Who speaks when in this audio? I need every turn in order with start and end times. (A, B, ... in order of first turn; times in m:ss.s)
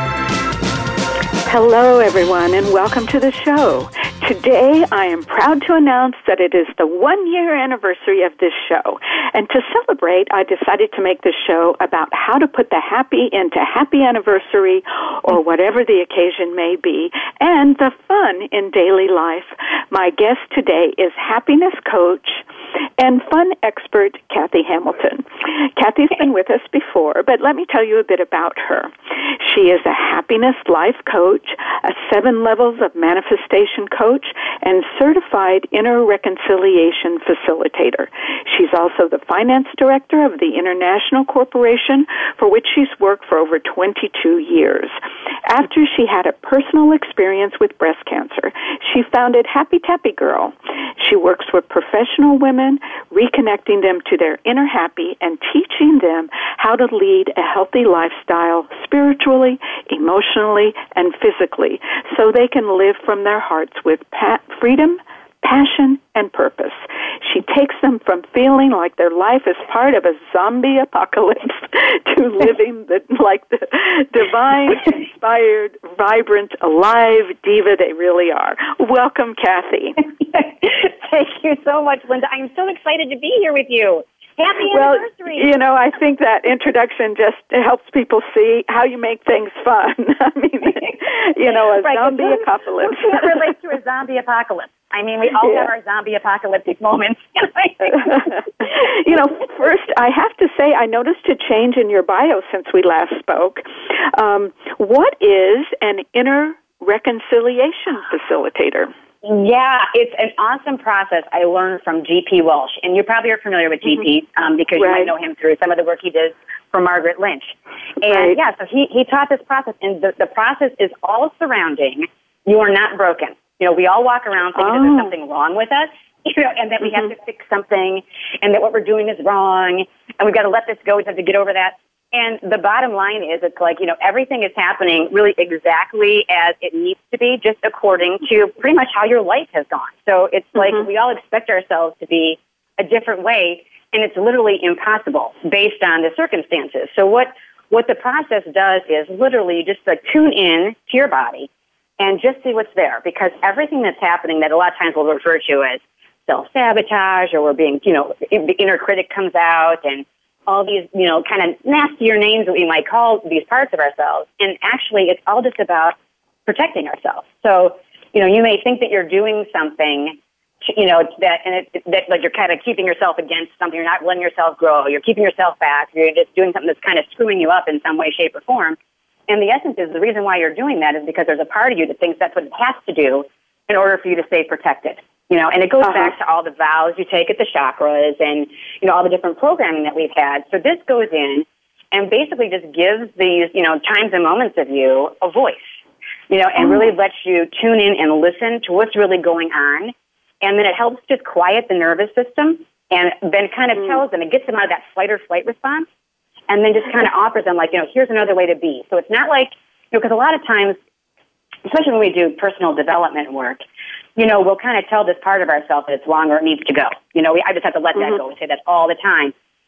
0:01.4-0:22.4 A
0:23.0-0:44.9 A
0:45.4-1:20.0 A
1:20.3-1:25.5 B
1:24.7-1:33.3 A
1:31.5-1:39.1 B
1:35.4-1:35.7 A
1:38.2-1:48.9 A
1:49.2-2:45.9 B
1:54.8-1:55.1 A
1:58.1-1:58.4 A
2:04.6-2:05.1 A
2:20.6-2:20.8 A
2:46.4-2:58.8 B
2:59.3-3:15.8 B
3:05.8-3:06.1 A
3:16.3-3:25.9 B
3:16.6-3:16.9 A
3:26.5-3:30.8 B
3:31.6-3:33.6 B
3:34.2-3:39.3 B